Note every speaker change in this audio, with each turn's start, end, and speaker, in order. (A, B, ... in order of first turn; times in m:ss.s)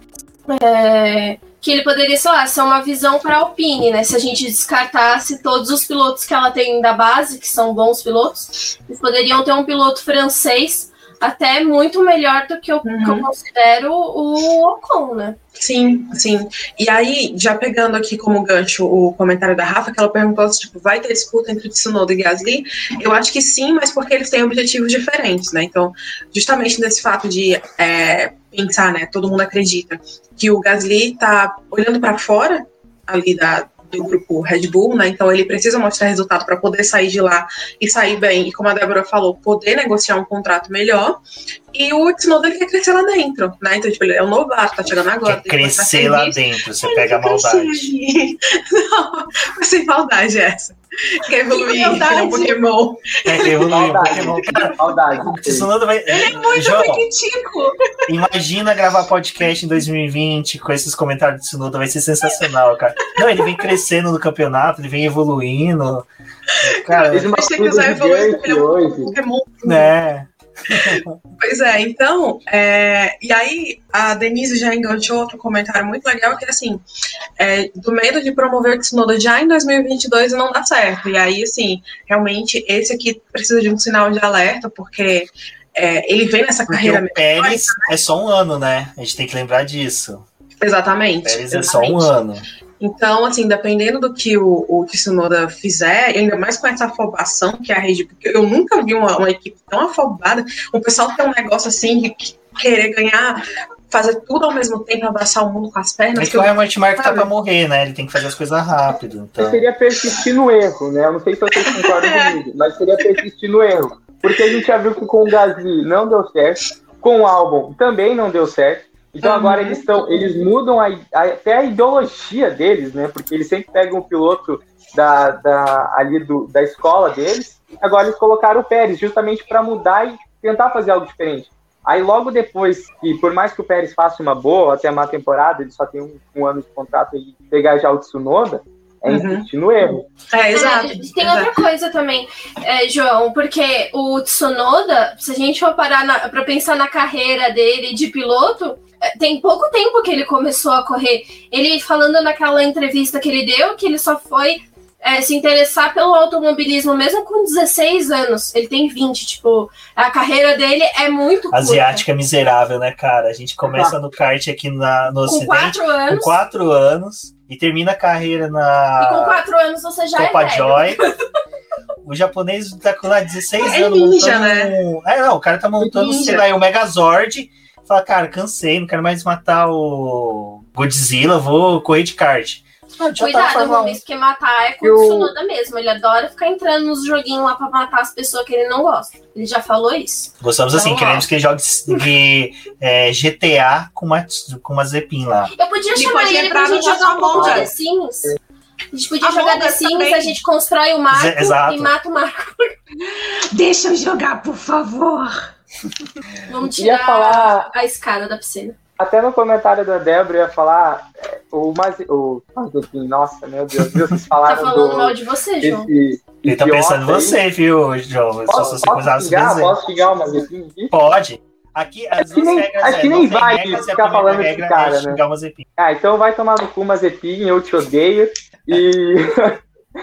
0:00.5-0:15.4 A
0:12.8-0:13.3 B
0:15.6-0:41.2 B
0:41.7-0:54.8 B
0:45.2-0:47.9 C
0:51.5-0:52.6 D
0:53.2-0:57.0 C
0:53.7-0:55.7 E
0:56.1-0:57.8 D
0:58.1-1:06.1 C
1:06.6-1:07.3 C
1:06.9-1:09.9 B
1:07.1-1:09.1 E
1:09.6-1:11.1 C
1:10.7-1:16.8 B
1:17.4-1:27.9 B
1:26.7-1:30.2 C
1:30.6-1:32.1 B
1:31.2-1:32.4 C
1:32.8-1:47.3 B
1:46.1-1:49.6 C
1:49.4-2:20.0 E
1:51.5-1:52.4 B
1:54.3-1:54.6 B
1:59.2-1:59.9 B
2:19.1-2:21.5 B
2:20.5-2:42.0 A
2:41.5-2:49.4 C
2:43.6-2:43.9 E
2:45.2-2:46.4 A
2:49.0-2:50.9 A
2:50.2-2:51.1 C
2:52.0-3:04.0 C
2:53.6-2:54.7 B
2:55.8-2:56.4 B
3:03.1-3:11.2 A
3:04.8-3:05.3 E
3:10.4-3:15.5 C
3:15.5-3:18.3 A
3:15.9-3:17.7 D
3:17.3-3:17.6 E
3:18.9-3:22.7 A
3:19.2-3:20.3 D
3:21.1-3:21.9 C
3:23.0-3:25.5 D
3:26.4-3:28.8 A
3:26.8-3:27.7 E
3:29.0-3:37.4 E
3:34.5-3:35.9 A
3:36.4-3:39.8 C
3:38.5-3:40.9 E
3:40.9-3:45.6 C
3:42.2-3:45.2 E
3:45.8-3:49.6 E